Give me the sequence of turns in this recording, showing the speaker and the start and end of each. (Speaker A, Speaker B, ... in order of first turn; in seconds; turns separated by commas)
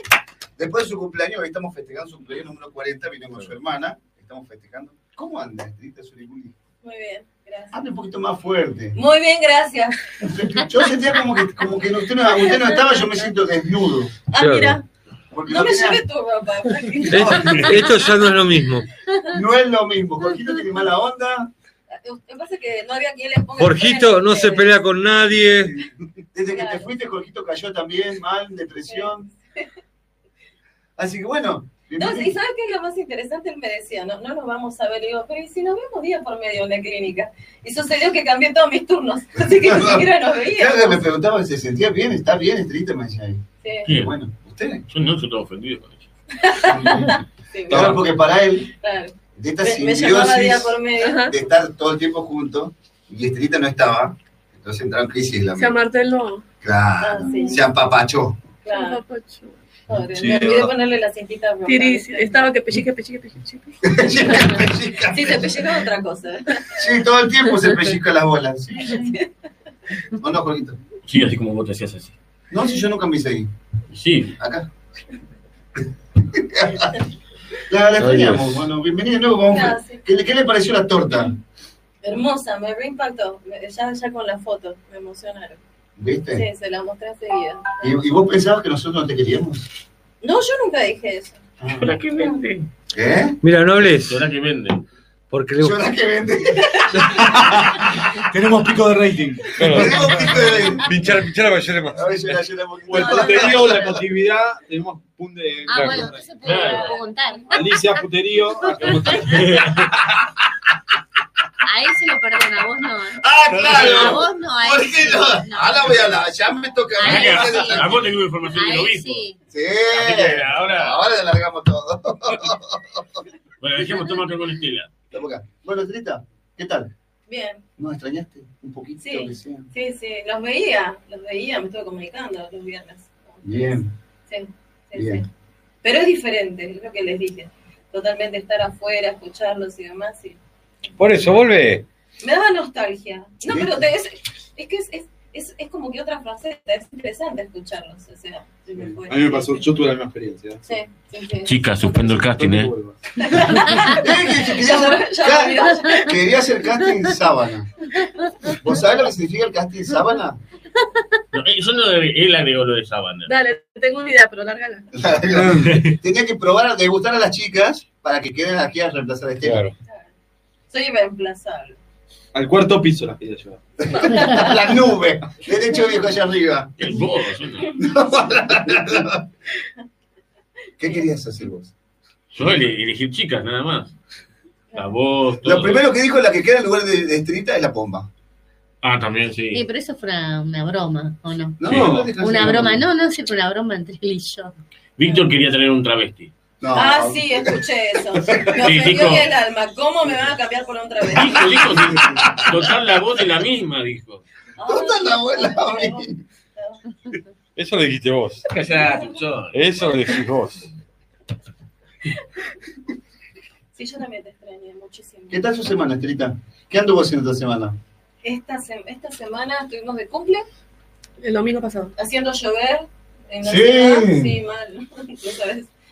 Speaker A: 0.6-6.5, Speaker B: 6.8-7.8, Speaker A: 7.7-9.0, Speaker B: 8.9-10.0, Speaker A: 10.2-14.2, Speaker B: 12.3-12.9, Speaker B: 14.3-14.8, Speaker C: 14.4-14.8, Speaker A: 15.3-16.0, Speaker B: 15.5-17.8, Speaker C: 17.1-18.9, Speaker A: 19.3-21.5, Speaker B: 21.9-24.8, Speaker C: 23.6-25.8, Speaker A: 26.3-29.3, Speaker B: 26.5-26.9, Speaker B: 28.9-29.6, Speaker A: 31.0-32.4, Speaker B: 32.0-41.0, Speaker A: 39.5-44.9, Speaker B: 43.6-43.9, Speaker D: 43.9-44.1, Speaker D: 44.9-46.0, Speaker B: 46.4-48.0, Speaker E: 47.7-48.0, Speaker A: 47.7-48.7, Speaker B: 48.8-51.2, Speaker A: 49.4-55.8, Speaker F: 51.0-51.4, Speaker F: 55.6-56.5, Speaker A: 56.6-58.4, Speaker B: 57.0-57.6, Speaker B: 58.6-59.0, Speaker F: 58.7-59.6, Speaker B: 59.9-62.4, Speaker E: 60.1-60.7, Speaker F: 61.7-63.9, Speaker A: 63.8-65.7, Speaker B: 65.0-66.7, Speaker A: 66.7-69.0, Speaker B: 68.8-69.2, Speaker A: 70.2-70.8, Speaker D: 71.1-72.2, Speaker A: 72.5-73.5, Speaker D: 73.9-74.3, Speaker A: 74.4-74.7, Speaker A: 76.3-76.9, Speaker A: 77.7-81.4, Speaker C: 78.0-78.7, Speaker B: 79.5-80.0, Speaker B: 82.0-85.6, Speaker A: 86.0-86.5, Speaker B: 86.3-88.0, Speaker A: 87.8-89.7, Speaker B: 90.2-91.4, Speaker A: 91.6-92.0, Speaker D: 91.8-92.7, Speaker A: 92.9-93.4, Speaker C: 93.4-94.2, Speaker D: 93.9-94.8, Speaker C: 95.3-95.8, Speaker A: 95.6-98.2, Speaker E: 97.0-100.1, Speaker C: 99.6-102.1, Speaker A: 99.6-100.9, Speaker A: 101.9-104.0, Speaker E: 102.9-106.3, Speaker B: 102.9-103.9, Speaker G: 105.7-109.4, Speaker C: 105.7-106.1, Speaker D: 106.4-107.0, Speaker B: 106.4-107.4, Speaker E: 107.5-109.5, Speaker D: 108.9-109.9, Speaker G: 111.6-116.2, Speaker A: 113.2-118.1, Speaker D: 113.5-114.2, Speaker G: 117.0-119.4, Speaker D: 117.0-119.2, Speaker A: 119.5-123.0, Speaker D: 119.9-121.0, Speaker D: 123.6-124.9, Speaker A: 125.1-126.9, Speaker B: 127.3-127.6, Speaker A: 127.8-129.7, Speaker B: 129.0-133.8, Speaker A: 133.4-133.9, Speaker B: 134.3-135.3, Speaker A: 134.9-135.2, Speaker B: 135.8-140.4, Speaker C: 141.0-141.9, Speaker B: 142.2-149.6, Speaker A: 143.4-143.9, Speaker E: 148.8-150.6, Speaker B: 150.7-152.2, Speaker D: 151.5-152.7, Speaker E: 151.9-153.0, Speaker B: 153.2-156.1, Speaker A: 154.0-157.7, Speaker A: 158.5-160.4, Speaker D: 161.3-163.3, Speaker F: 163.3-164.9, Speaker A: 164.9-169.7, Speaker E: 165.3-165.8, Speaker C: 169.4-169.7, Speaker B: 169.9-170.1, Speaker B: 170.7-171.8, Speaker E: 172.3-173.6, Speaker A: 173.8-176.7, Speaker B: 174.0-174.6, Speaker D: 176.8-177.8, Speaker A: 177.8-179.2, Speaker A: 180.8-181.7, Speaker D: 182.3-183.9, Speaker D: 184.8-185.8, Speaker A: 185.4-188.1, Speaker D: 188.8-189.6, Speaker G: 189.5-191.6, Speaker A: 191.6-192.9, Speaker D: 191.7-192.0, Speaker E: 191.7-192.2, Speaker G: 192.2-194.6, Speaker D: 195.0-196.3, Speaker A: 196.6-197.6, Speaker B: 196.7-201.7, Speaker A: 198.2-198.7, Speaker D: 198.6-199.3, Speaker D: 201.1-204.2, Speaker A: 201.8-202.4, Speaker B: 204.6-206.8, Speaker A: 204.7-206.2, Speaker C: 207.6-208.5, Speaker D: 208.5-209.6, Speaker C: 209.5-210.7, Speaker B: 213.7-215.5, Speaker A: 215.3-217.8, Speaker B: 218.2-220.5, Speaker F: 221.2-221.9, Speaker B: 222.0-225.7, Speaker A: 223.4-224.4